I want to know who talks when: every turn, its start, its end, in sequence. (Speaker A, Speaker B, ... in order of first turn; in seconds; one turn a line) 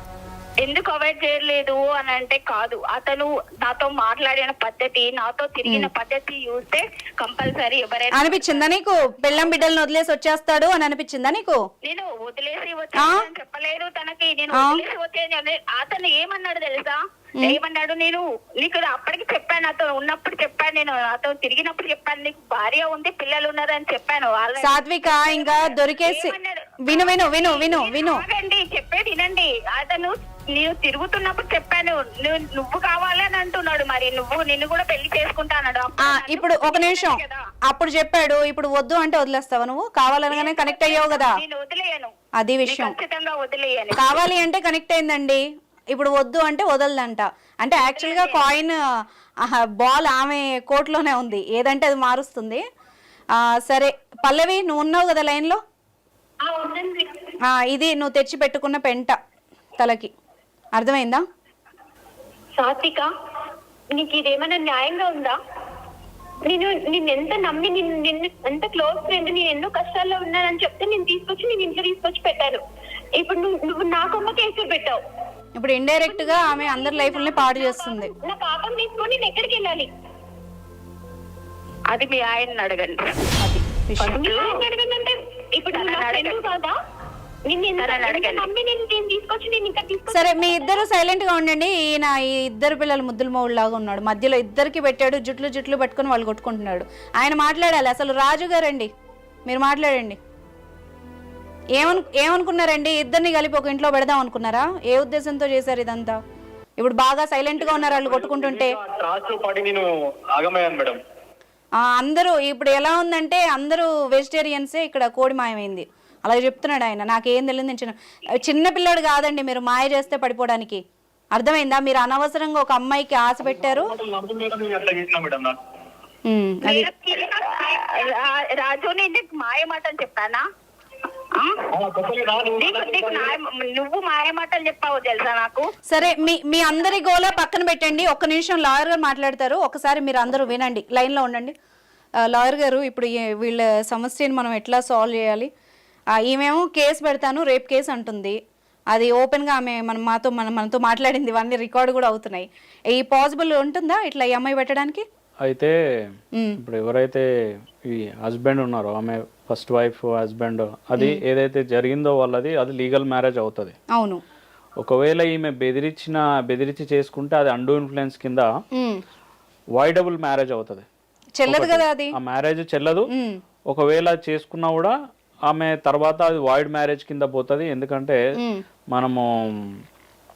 Speaker A: 0.6-8.6
Speaker B: 8.1-11.6
Speaker A: 11.8-37.5
Speaker B: 13.0-13.2
Speaker B: 14.5-14.8
Speaker B: 24.6-26.3
Speaker B: 26.9-28.2
Speaker B: 36.0-41.4
Speaker A: 40.3-42.1
Speaker B: 42.4-42.9
Speaker A: 42.7-44.2
Speaker B: 44.0-48.8
Speaker A: 47.9-48.4
Speaker B: 49.4-52.6
Speaker B: 53.4-55.6
Speaker C: 56.4-57.2
Speaker B: 57.5-59.2
Speaker B: 59.8-60.1
Speaker B: 60.8-61.2
Speaker C: 62.6-63.1
Speaker C: 63.9-65.4
Speaker C: 66.5-72.6
Speaker C: 73.2-75.0
Speaker B: 75.6-78.1
Speaker C: 76.0-79.9
Speaker A: 81.9-83.2
Speaker B: 83.4-84.2
Speaker C: 84.0-86.8
Speaker A: 84.2-84.6
Speaker A: 85.7-86.5
Speaker C: 87.5-90.8
Speaker A: 87.8-88.5
Speaker B: 90.1-98.9
Speaker B: 99.5-100.2
Speaker B: 101.8-106.2
Speaker B: 106.8-108.8
Speaker D: 107.6-111.0
Speaker B: 111.8-120.8
Speaker B: 121.3-123.9
Speaker D: 123.4-125.6
Speaker B: 126.3-126.9
Speaker A: 126.6-130.4
Speaker D: 131.7-133.3
Speaker A: 132.6-135.7
Speaker B: 135.9-141.5
Speaker A: 136.7-137.3
Speaker B: 142.2-145.5
Speaker B: 146.2-148.4
Speaker B: 148.9-155.0
Speaker E: 155.4-155.8
Speaker E: 156.6-157.3
Speaker E: 157.8-163.8
Speaker B: 163.9-164.2
Speaker E: 164.8-168.5
Speaker B: 168.8-169.0
Speaker E: 169.8-170.8
Speaker B: 171.4-172.1
Speaker E: 171.5-173.1
Speaker B: 173.1-173.4
Speaker E: 173.7-174.9
Speaker E: 175.5-178.2
Speaker B: 178.4-178.6
Speaker E: 178.9-179.7